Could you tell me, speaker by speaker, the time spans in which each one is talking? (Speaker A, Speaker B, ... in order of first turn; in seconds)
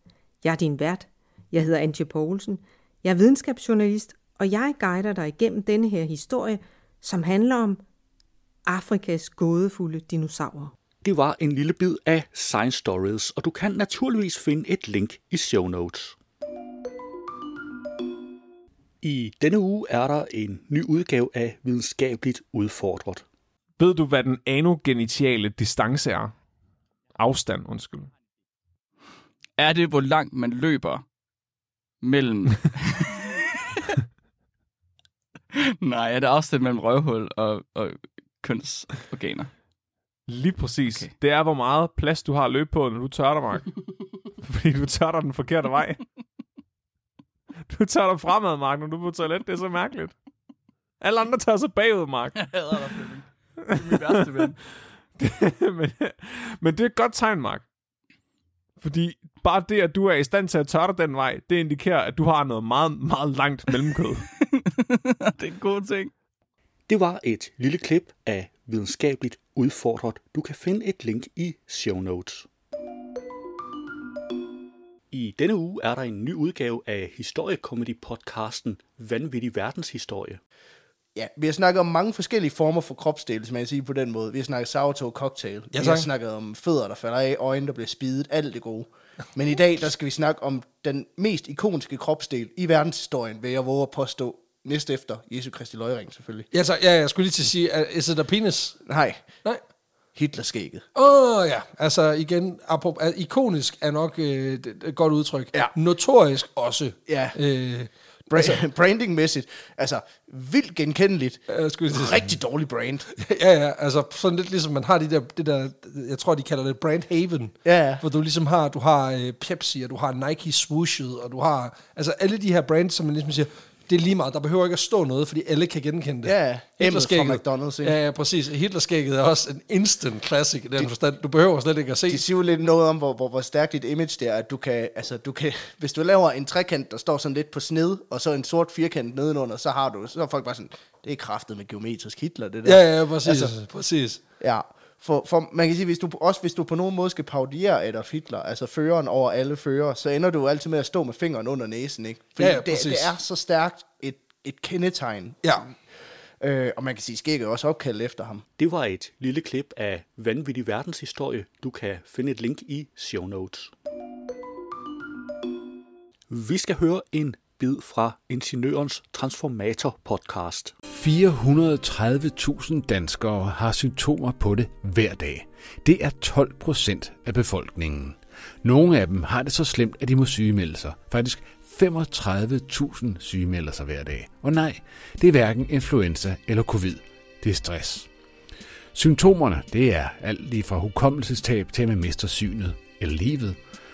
Speaker A: 0.4-7.8, 8.7-10.7
Speaker B: 11.0-16.1, 19.0-23.2, 66.9-72.5, 75.1-80.4, 158.6-163.7, 166.3-170.7
Speaker C: 23.8-26.3, 27.1-28.1, 40.3-43.7, 44.4-46.0, 47.7-50.1, 51.0-52.5, 53.6-54.5, 55.1-57.6, 58.8-64.2
Speaker D: 29.6-31.0, 32.0-33.4, 35.5-39.5, 40.8-41.1, 52.3-54.6, 64.3-66.1
Speaker E: 81.2-96.5, 98.8-99.4, 100.1-100.9, 107.0-107.4, 108.3-113.1, 117.6-118.0, 126.2-127.9, 132.1-143.6, 144.4-155.7, 156.4-158.4
Speaker F: 85.7-86.1, 96.5-98.8, 100.9-108.6, 111.5-112.3, 113.2-132.2, 142.6-144.2, 152.4-153.2
Speaker G: 170.9-188.1, 188.9-193.6